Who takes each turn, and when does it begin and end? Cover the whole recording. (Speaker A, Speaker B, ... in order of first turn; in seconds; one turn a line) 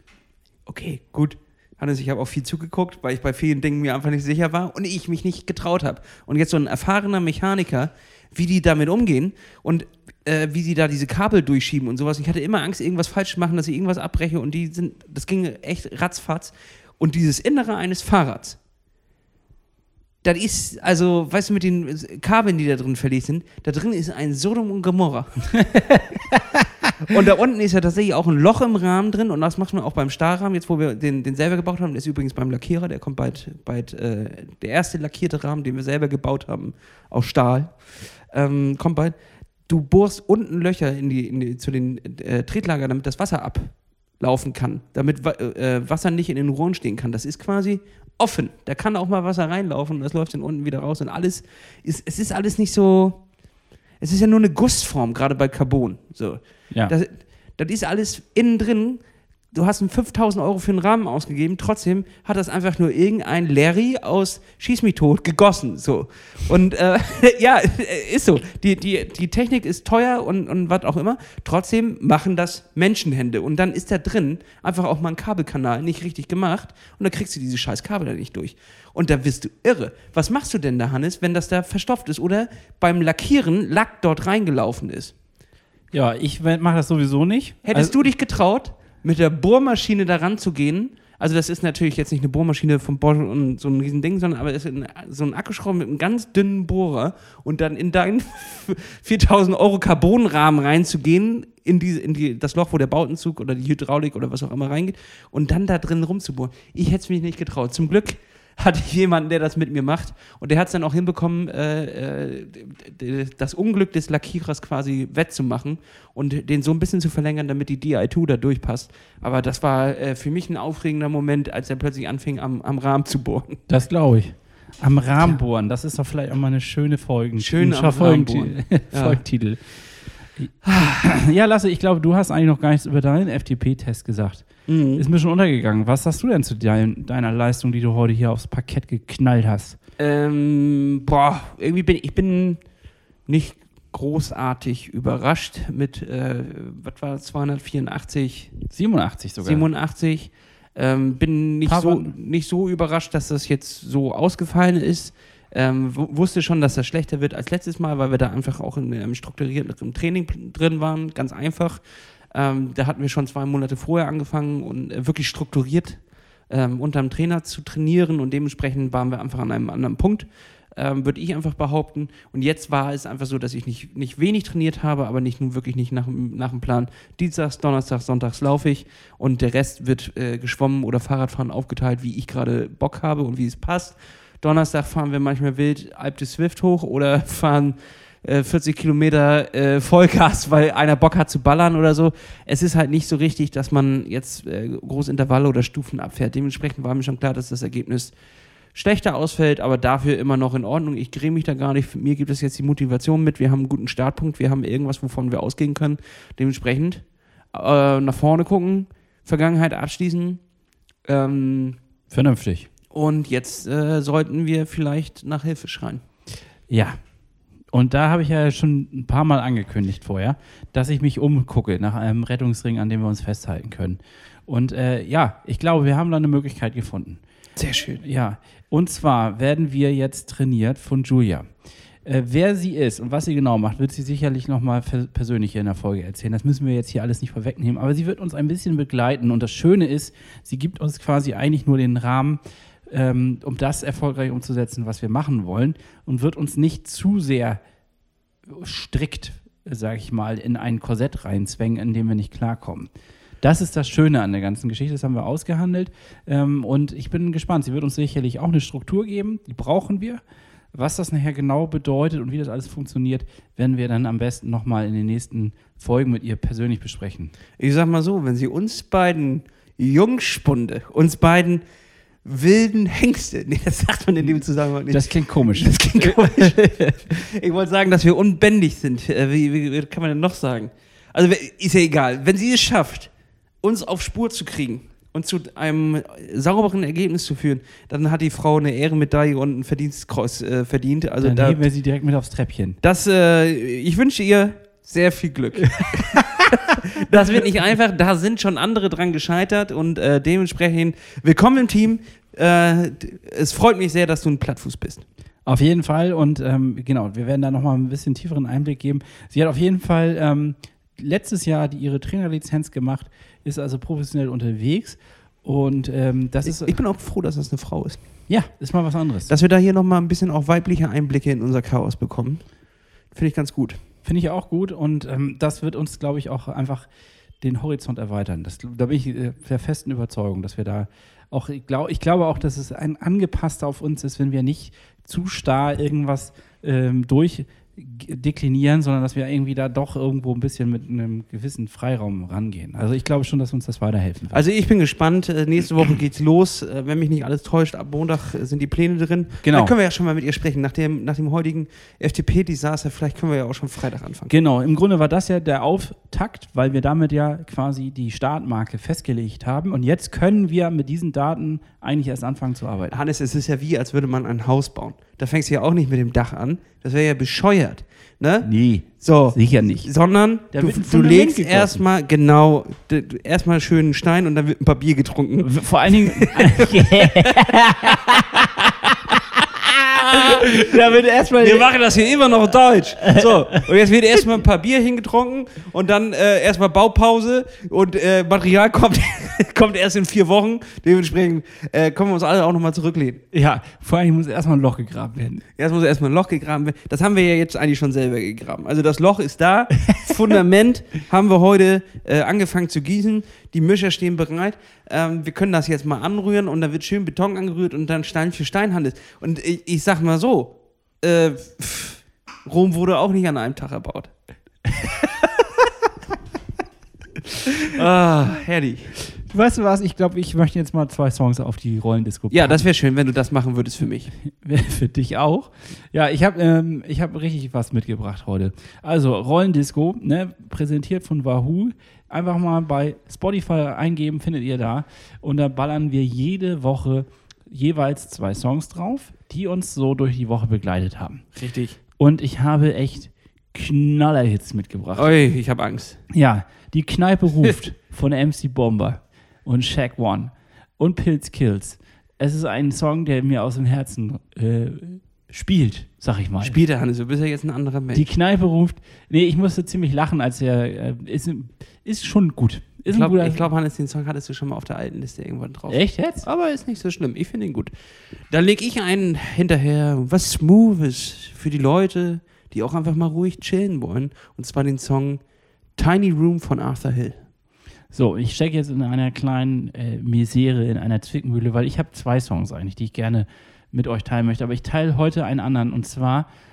Speaker A: 0.7-18.6
Speaker A: 20.2-25.8
Speaker B: 25.8-26.6
Speaker A: 27.1-39.1
Speaker A: 39.7-53.5
Speaker A: 54.0-85.1
Speaker B: 85.9-88.0
Speaker A: 87.7-123.6
Speaker B: 123.7-139.8
Speaker A: 127.4-129.2
Speaker A: 134.7-135.0
Speaker A: 140.0-148.6
Speaker B: 148.7-149.7
Speaker A: 149.4-198.2
Speaker B: 151.7-152.1
Speaker A: 198.7-210.4
Speaker A: 211.1-211.8
Speaker B: 212.1-212.7
Speaker A: 212.9-216.0
Speaker B: 216.7-217.2
Speaker B: 217.7-227.2
Speaker A: 227.6-228.0
Speaker B: 228.0-231.5
Speaker B: 232.1-247.6
Speaker B: 248.5-260.2
Speaker B: 260.7-267.3
Speaker A: 267.6-271.6
Speaker A: 272.2-291.6
Speaker B: 274.9-276.9
Speaker B: 291.2-292.8
Speaker A: 292.8-296.3
Speaker B: 295.8-296.2
Speaker A: 297.0-305.1
Speaker B: 305.5-316.8
Speaker A: 316.4-318.3
Speaker B: 318.3-319.3
Speaker A: 319.3-323.8
Speaker B: 324.0-344.4
Speaker A: 344.3-354.3
Speaker B: 349.4-349.7
Speaker B: 354.3-363.0
Speaker A: 362.9-377.4
Speaker B: 368.4-369.9
Speaker B: 370.5-371.8
Speaker B: 375.4-381.7
Speaker A: 380.1-380.4
Speaker A: 381.4-393.2
Speaker B: 383.0-383.6
Speaker B: 393.3-395.4
Speaker A: 395.5-414.1
Speaker A: 417.7-418.9
Speaker B: 419.3-422.6
Speaker A: 422.3-424.1
Speaker B: 424.2-441.3
Speaker A: 441.4-441.8
Speaker B: 441.9-445.1
Speaker A: 445.0-446.0
Speaker B: 446.1-456.6
Speaker A: 456.4-458.1
Speaker B: 457.9-463.4
Speaker A: 462.9-467.7
Speaker B: 465.7-466.3
Speaker A: 468.2-477.2
Speaker B: 477.9-486.3